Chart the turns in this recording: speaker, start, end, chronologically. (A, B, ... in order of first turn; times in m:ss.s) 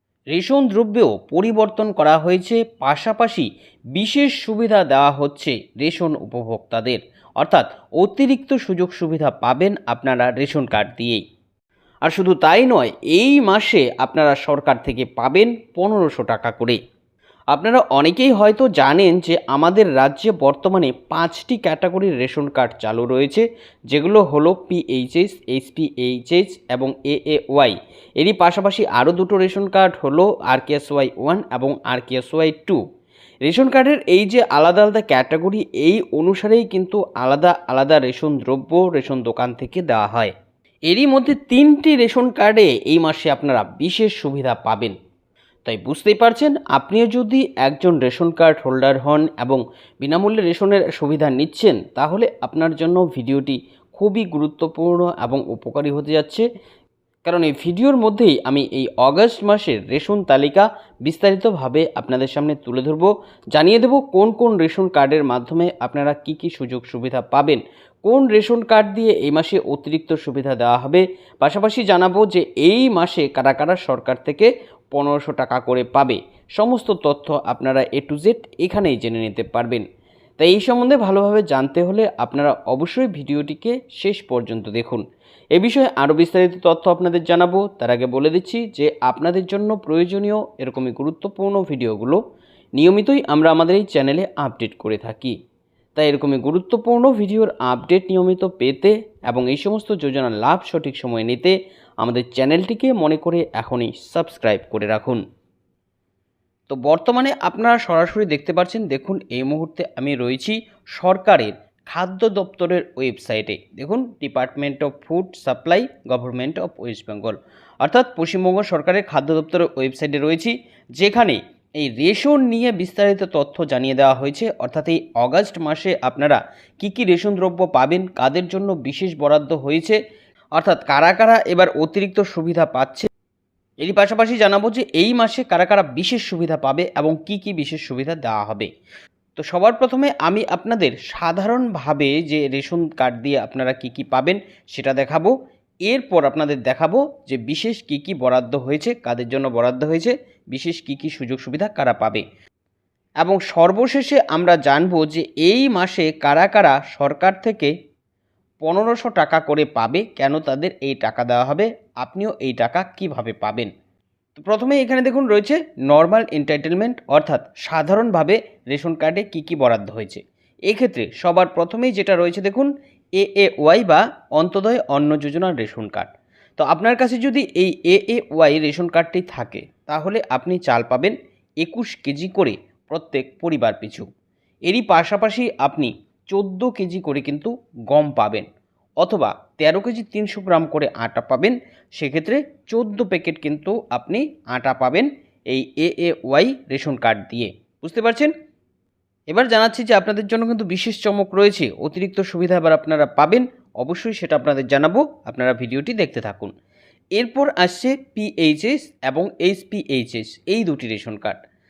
0:00.3-0:11.2 A
0:12.0-0:16.8 A
0:17.5-0:32.8 A
0:33.4-0:40.3 A
0:40.9-0:45.0 A
0:45.6-0:56.4 A
0:57.2-1:19.8 A
1:20.4-1:25.0 A
1:25.5-1:32.2 A
1:32.8-1:35.4 A
1:36.0-1:45.2 A
1:46.7-2:10.0 A
2:10.6-2:13.1 A
2:13.8-2:18.7 A
2:19.4-2:25.3 A
2:25.9-2:32.2 A
2:33.2-2:37.7 A
2:38.6-2:43.7 A
2:44.4-3:04.1 A
3:04.7-3:08.5 A
3:09.0-3:18.3 A
3:19.3-3:26.5 A
3:27.2-3:31.4 A